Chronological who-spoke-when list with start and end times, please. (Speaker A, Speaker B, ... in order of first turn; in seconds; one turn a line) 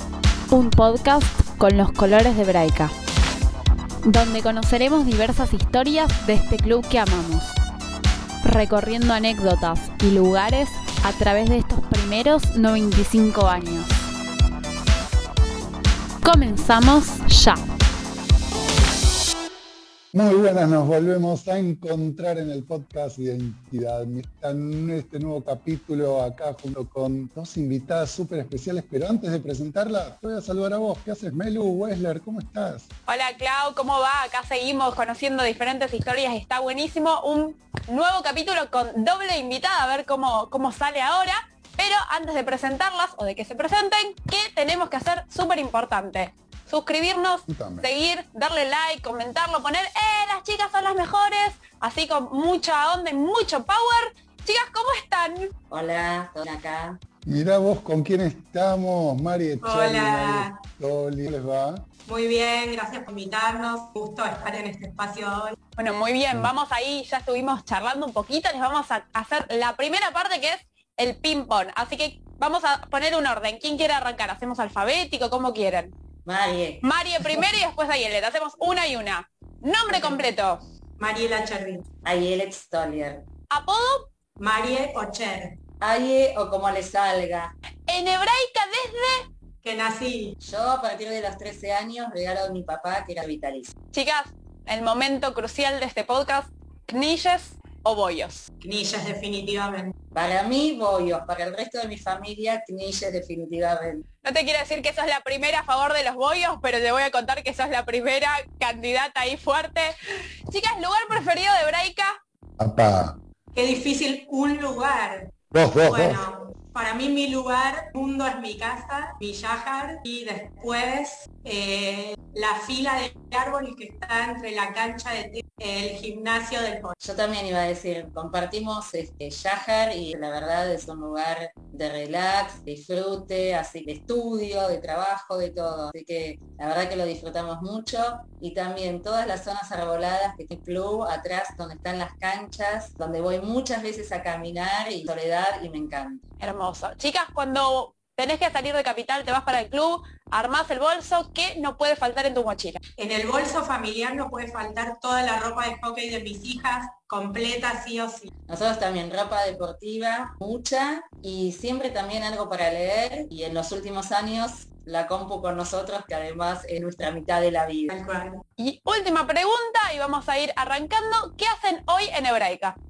Speaker A: 0.5-2.9
Speaker A: 4.0-7.5
Speaker A: 8.4-13.9
Speaker A: 16.2-17.6
Speaker B: 20.1-32.9
Speaker C: 33.1-55.5
Speaker B: 47.5-47.9
Speaker D: 55.7-57.0
Speaker B: 57.2-61.8
Speaker E: 59.6-60.5
Speaker E: 62.0-65.6
Speaker C: 65.8-75.9
Speaker D: 76.2-76.8
Speaker C: 76.8-80.6
Speaker E: 79.9-80.2
Speaker E: 81.0-81.8
Speaker D: 82.0-83.2
Speaker C: 83.5-84.1
Speaker E: 84.4-85.6
Speaker D: 85.8-87.5
Speaker C: 87.9-89.3
Speaker E: 89.6-90.3
Speaker D: 90.4-93.7
Speaker C: 93.9-98.5
Speaker E: 98.6-99.9
Speaker D: 100.1-104.0
Speaker C: 104.2-109.9
Speaker C: 110.5-112.2
Speaker B: 112.6-113.2
Speaker E: 113.5-115.3
Speaker B: 115.5-116.2
Speaker E: 115.9-126.9
Speaker D: 127.0-146.2
Speaker C: 146.4-152.8
Speaker E: 153.0-158.3
Speaker D: 158.5-167.9
Speaker E: 167.9-168.4
Speaker C: 168.6-172.8